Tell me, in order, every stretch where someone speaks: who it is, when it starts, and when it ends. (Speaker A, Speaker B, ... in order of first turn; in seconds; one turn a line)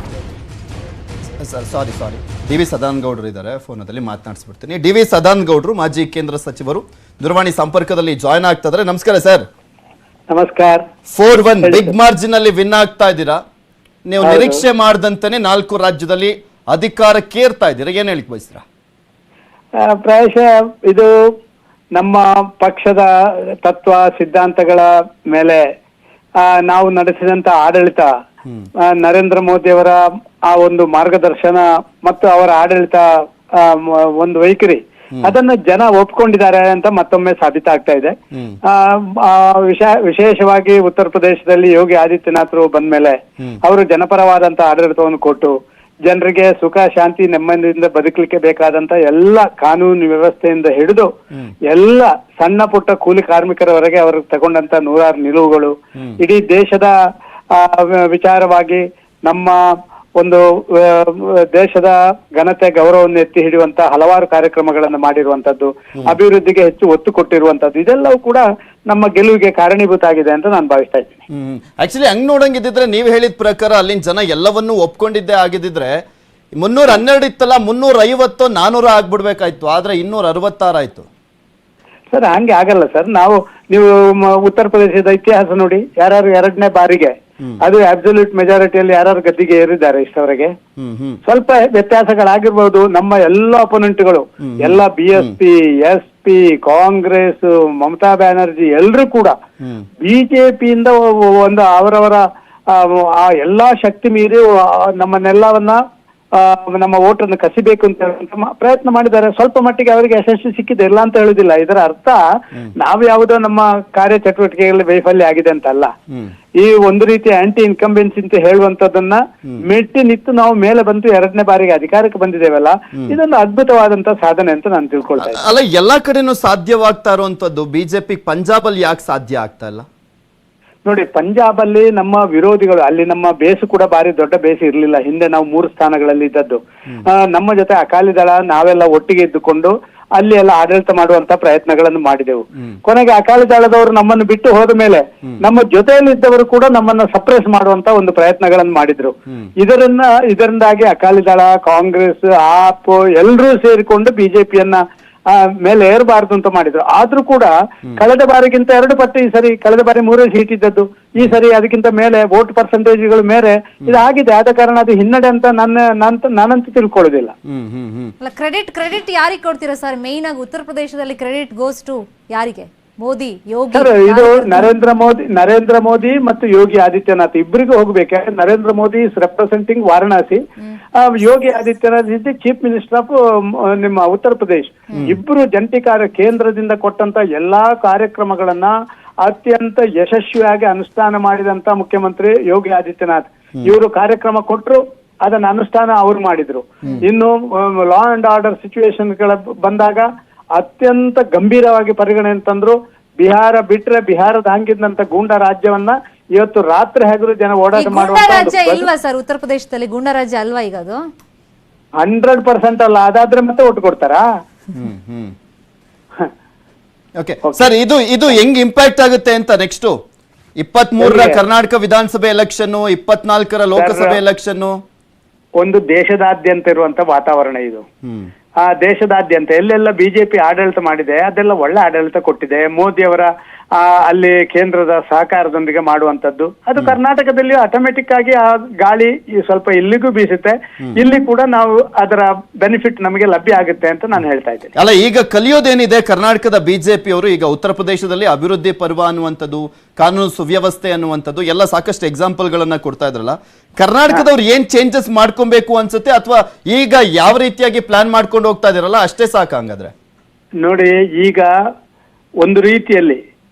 Speaker A: 1.4-9.4
Speaker B: 10.3-10.8
Speaker A: 11.1-13.4
Speaker B: 11.6-11.9
Speaker A: 14.1-18.6
Speaker B: 14.2-14.6
Speaker B: 19.8-21.1
Speaker B: 21.9-23.1
Speaker B: 23.6-25.6
Speaker B: 26.4-28.1
Speaker B: 28.9-30.0
Speaker B: 30.5-33.0
Speaker B: 33.6-38.1
Speaker B: 38.6-45.5
Speaker B: 46.1-51.1
Speaker B: 51.7-56.9
Speaker B: 57.5-59.5
Speaker B: 60.2-71.2
Speaker A: 71.3-76.0
Speaker A: 76.6-81.1
Speaker B: 82.1-90.5
Speaker A: 90.8-91.2
Speaker B: 91.2-99.3
Speaker A: 94.4-95.3
Speaker A: 99.6-99.9
Speaker B: 100.0-105.8
Speaker B: 106.3-112.2
Speaker B: 112.8-115.9
Speaker B: 116.6-125.4
Speaker A: 125.2-129.8
Speaker B: 130.8-154.8
Speaker B: 155.3-167.3
Speaker A: 167.5-168.1
Speaker C: 168.2-174.7
Speaker B: 173.7-180.4
Speaker B: 181.0-188.7
Speaker B: 189.2-208.9
Speaker C: 207.7-211.0
Speaker B: 212.0-214.2
Speaker A: 214.7-215.3
Speaker A: 217.2-220.0
Speaker A: 220.6-224.8
Speaker B: 221.0-221.4
Speaker B: 223.7-224.2
Speaker B: 225.6-227.8
Speaker A: 228.0-228.3
Speaker B: 228.6-244.7
Speaker A: 244.8-259.9
Speaker B: 260.6-261.5
Speaker B: 262.4-263.2